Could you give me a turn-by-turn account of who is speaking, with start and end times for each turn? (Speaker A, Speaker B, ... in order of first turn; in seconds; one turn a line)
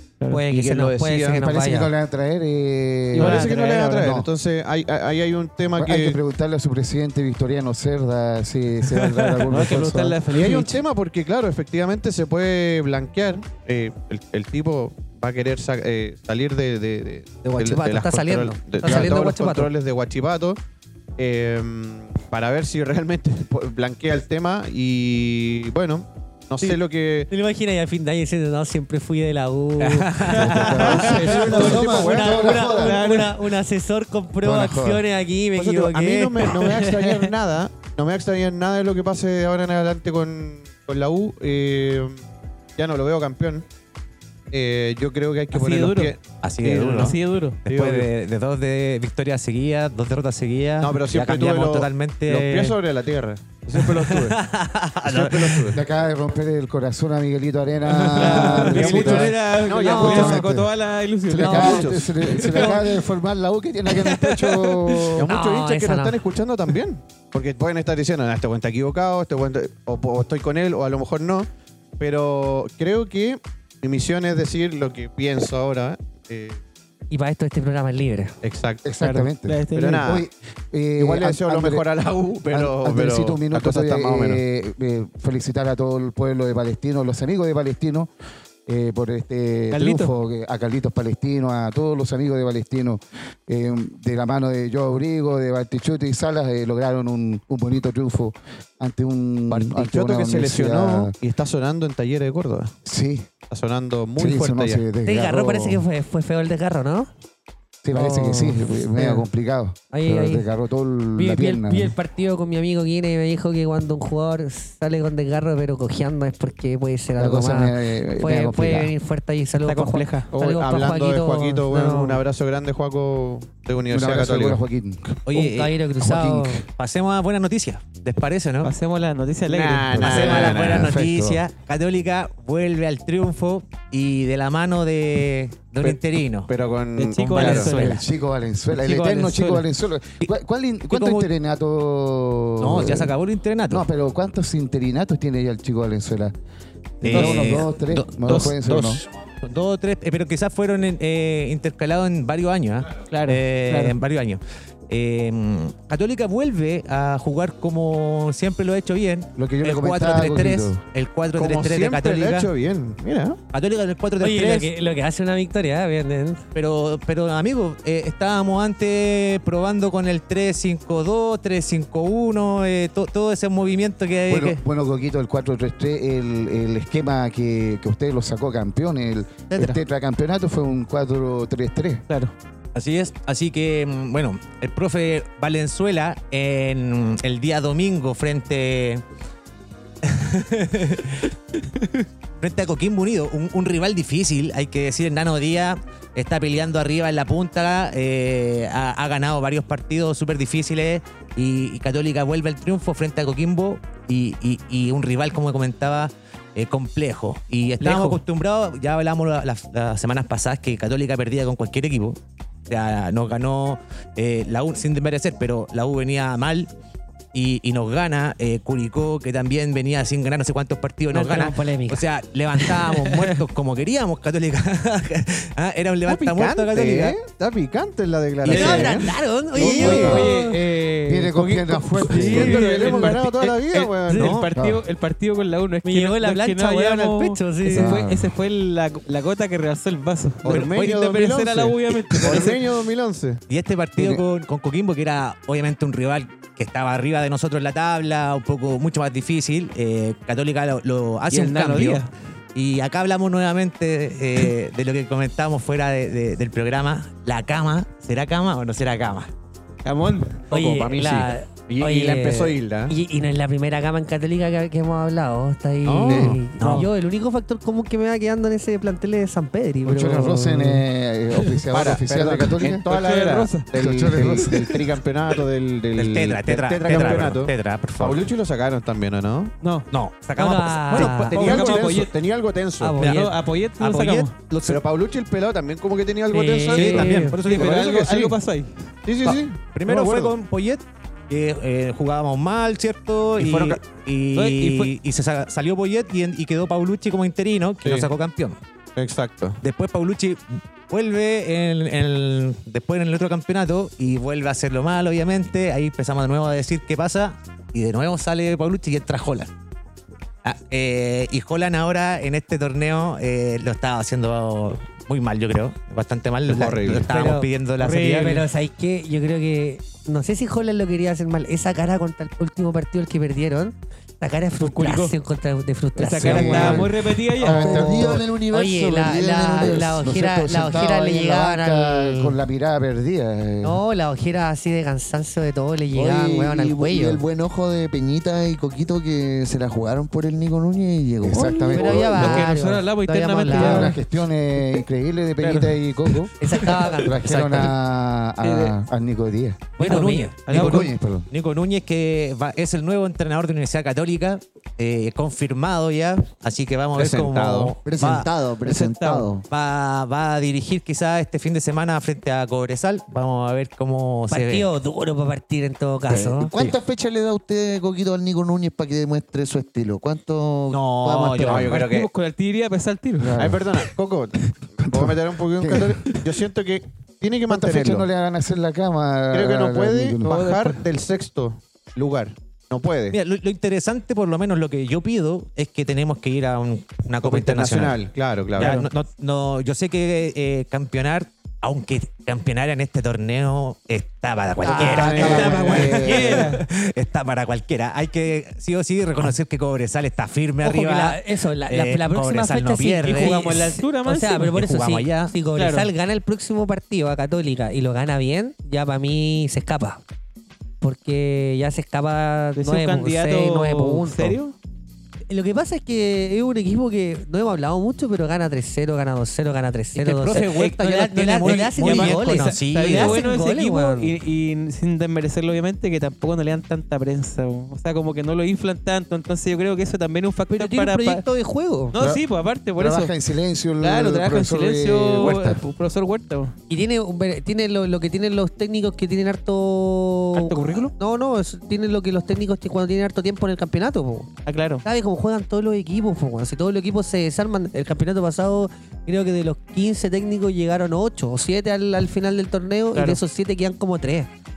Speaker A: 0.3-1.9
Speaker B: 0.5-1.4
Speaker C: 1.3-4.3
Speaker D: 3.1-3.9
Speaker B: 3.1-6.2
Speaker C: 5.8-10.2
Speaker D: 9.4-10.8
Speaker B: 10.3-20.6
Speaker A: 17.4-19.7
Speaker B: 21.2-27.3
Speaker A: 26.6-36.7
Speaker E: 29.8-31.1
Speaker C: 30.3-33.0
Speaker D: 30.4-31.8
Speaker B: 30.8-32.4
Speaker D: 32.7-33.4
Speaker C: 34.4-35.0
Speaker B: 35.6-42.2
Speaker D: 36.7-37.2
Speaker B: 42.8-43.6
Speaker B: 44.5-48.1
Speaker D: 45.5-46.1
Speaker E: 46.4-52.8
Speaker D: 46.9-47.6
Speaker B: 50.8-54.4
Speaker E: 53.7-55.8
Speaker B: 55.0-55.8
Speaker C: 55.7-59.4
Speaker D: 58.1-62.9
Speaker B: 58.1-60.5
Speaker A: 59.8-60.3
Speaker C: 59.9-60.7
Speaker C: 61.3-65.3
Speaker B: 61.4-62.7
Speaker A: 61.4-61.8
Speaker D: 63.9-65.2
Speaker B: 65.2-71.5
Speaker A: 65.3-66.2
Speaker B: 72.0-76.6
Speaker A: 77.1-78.4
Speaker B: 78.4-78.9
Speaker C: 78.8-81.8
Speaker D: 79.0-80.1
Speaker B: 79.7-80.2
Speaker B: 81.0-84.4
Speaker C: 82.5-88.1
Speaker C: 88.7-101.1
Speaker D: 89.7-90.1
Speaker B: 99.5-102.7
Speaker C: 102.8-103.3
Speaker B: 103.5-104.8
Speaker C: 104.2-105.8
Speaker A: 105.0-107.1
Speaker C: 107.8-111.9
Speaker A: 107.9-109.2
Speaker A: 109.9-110.4
Speaker A: 111.2-122.2
Speaker C: 117.2-118.9
Speaker D: 119.6-120.3
Speaker B: 120.3-124.6
Speaker C: 123.9-125.2
Speaker E: 125.2-125.7
Speaker A: 125.3-126.6
Speaker C: 126.0-126.7
Speaker E: 126.8-128.7
Speaker D: 128.6-130.2
Speaker B: 129.5-130.9
Speaker E: 129.8-136.5
Speaker C: 130.0-131.4
Speaker B: 135.8-137.7
Speaker D: 137.0-138.0
Speaker E: 137.3-138.0
Speaker C: 137.5-143.1
Speaker D: 138.7-139.6
Speaker E: 140.9-141.3
Speaker E: 142.6-143.9
Speaker C: 143.7-146.3
Speaker E: 147.0-162.5
Speaker C: 147.0-149.0
Speaker D: 147.1-147.6
Speaker D: 153.1-154.0
Speaker C: 159.4-160.8
Speaker B: 161.3-163.4
Speaker E: 163.5-164.7
Speaker A: 164.2-166.4
Speaker E: 166.5-174.6
Speaker C: 174.3-182.0
Speaker E: 182.7-189.0
Speaker E: 190.0-191.8
Speaker E: 192.4-216.7
Speaker D: 207.8-208.2
Speaker E: 217.3-227.2
Speaker A: 221.1-222.0
Speaker A: 222.6-222.9
Speaker B: 226.1-230.2
Speaker E: 228.4-228.9
Speaker A: 228.5-230.6
Speaker D: 228.5-242.6
Speaker C: 229.7-230.3
Speaker C: 231.1-232.7
Speaker B: 232.1-234.4
Speaker A: 232.7-233.3
Speaker E: 234.1-234.5
Speaker C: 234.5-234.8
Speaker A: 235.8-238.0
Speaker C: 237.7-238.3
Speaker B: 240.4-243.4
Speaker E: 240.4-240.9
Speaker E: 243.5-259.3
Speaker C: 243.9-244.2
Speaker D: 251.3-252.1
Speaker D: 259.8-260.4
Speaker B: 260.5-262.9
Speaker A: 260.5-270.8
Speaker E: 265.9-266.9
Speaker B: 266.0-266.4
Speaker C: 269.8-272.8
Speaker B: 271.7-279.5
Speaker D: 272.9-274.3
Speaker C: 273.7-274.8
Speaker E: 275.9-278.3
Speaker D: 279.6-279.9
Speaker E: 279.9-282.1
Speaker A: 280.4-281.3
Speaker B: 280.9-283.0
Speaker D: 281.2-282.1
Speaker A: 282.8-283.2
Speaker D: 283.0-284.3
Speaker E: 283.0-284.8
Speaker B: 284.7-288.4
Speaker A: 286.3-287.4
Speaker E: 286.7-287.9
Speaker D: 286.7-288.8
Speaker B: 289.0-290.3
Speaker E: 289.2-298.6
Speaker B: 293.4-293.8
Speaker D: 294.3-294.9
Speaker B: 297.8-298.1
Speaker B: 298.9-299.6
Speaker E: 299.6-309.5
Speaker E: 310.4-318.4
Speaker B: 316.5-317.1
Speaker A: 316.9-317.5
Speaker D: 317.8-318.4
Speaker A: 318.1-326.9
Speaker D: 324.6-325.1
Speaker D: 326.0-327.8
Speaker C: 326.2-328.2
Speaker A: 327.4-332.4
Speaker F: 327.5-330.0
Speaker C: 329.7-333.8
Speaker A: 333.6-337.2
Speaker F: 335.9-341.7
Speaker C: 341.2-342.4
Speaker A: 341.3-344.0
Speaker D: 341.5-344.0
Speaker C: 343.5-349.7
Speaker D: 345.4-345.7
Speaker A: 346.4-347.7
Speaker D: 348.4-348.8
Speaker A: 349.8-350.5
Speaker E: 349.8-358.3
Speaker D: 350.4-350.9
Speaker C: 350.5-351.3
Speaker B: 356.9-357.8
Speaker F: 357.8-359.4
Speaker D: 358.6-359.3
Speaker E: 359.5-364.7
Speaker A: 364.3-366.5
Speaker F: 366.1-371.7
Speaker E: 370.7-371.8
Speaker B: 371.4-372.1
Speaker D: 371.7-373.4
Speaker C: 373.2-373.6
Speaker B: 373.4-378.1
Speaker C: 374.9-376.0
Speaker C: 377.5-380.4
Speaker B: 379.3-383.2
Speaker D: 380.3-380.8
Speaker E: 383.1-388.0
Speaker B: 387.2-388.9
Speaker E: 388.5-403.8
Speaker A: 394.6-395.7
Speaker B: 394.8-396.2
Speaker D: 394.9-396.6
Speaker C: 395.1-396.4
Speaker A: 400.6-410.0
Speaker D: 403.1-404.6
Speaker E: 404.5-405.3
Speaker D: 405.6-405.9
Speaker A: 410.8-414.4
Speaker D: 412.6-414.5
Speaker A: 415.3-424.1
Speaker E: 419.9-423.2
Speaker D: 421.4-431.2
Speaker A: 430.5-431.9
Speaker D: 431.9-433.1
Speaker C: 431.9-432.2
Speaker C: 432.8-435.6
Speaker D: 433.8-436.5
Speaker A: 436.7-444.3
Speaker D: 440.3-440.9
Speaker D: 444.4-444.8
Speaker A: 444.8-454.3
Speaker D: 452.9-453.2